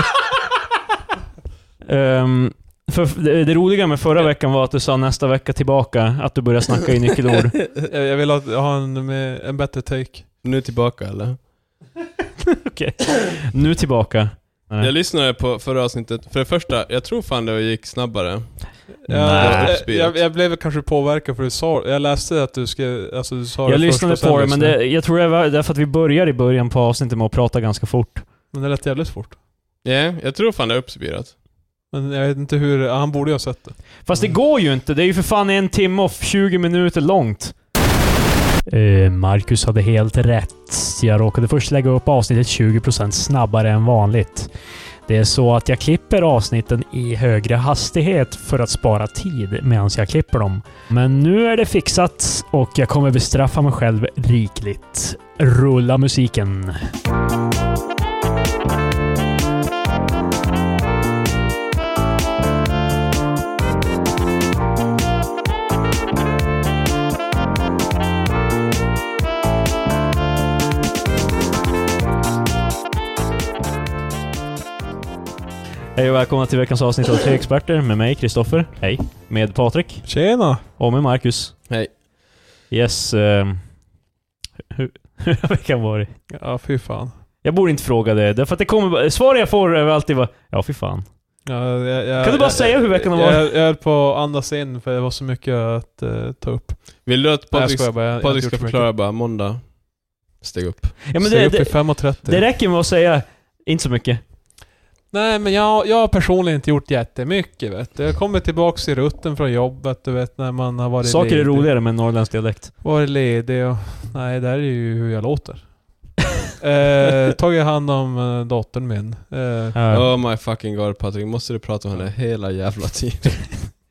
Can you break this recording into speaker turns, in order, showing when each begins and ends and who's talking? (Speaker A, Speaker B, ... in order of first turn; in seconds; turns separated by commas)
Speaker A: 1.8-7.6, Speaker B: 7.8-10.3, Speaker C: 10.4-11.4, Speaker A: 12.6-14.9, Speaker C: 14.8-20.2, Speaker B: 19.0-24.8, Speaker A: 19.1-19.7, Speaker A: 23.6-28.2, Speaker B: 28.5-29.4, Speaker C: 29.8-31.3, Speaker B: 31.9-34.3, Speaker A: 34.0-37.5, Speaker A: 38.7-44.5, Speaker A: 45.1-56.9, Speaker A: 76.0-81.5, Speaker B: 80.0-80.6, Speaker A: 82.7-83.7, Speaker A: 84.7-86.1, Speaker B: 86.3-87.1, Speaker A: 87.4-91.1, Speaker B: 91.4-98.9, Speaker A: 92.2-93.5, Speaker C: 97.0-101.0, Speaker A: 101.1-104.2, Speaker B: 101.2-102.4, Speaker B: 105.1-111.8, Speaker A: 111.0-112.7, Speaker B: 112.8-116.1, Speaker B: 116.6-119.8, Speaker A: 119.7-120.1, Speaker C: 119.9-123.6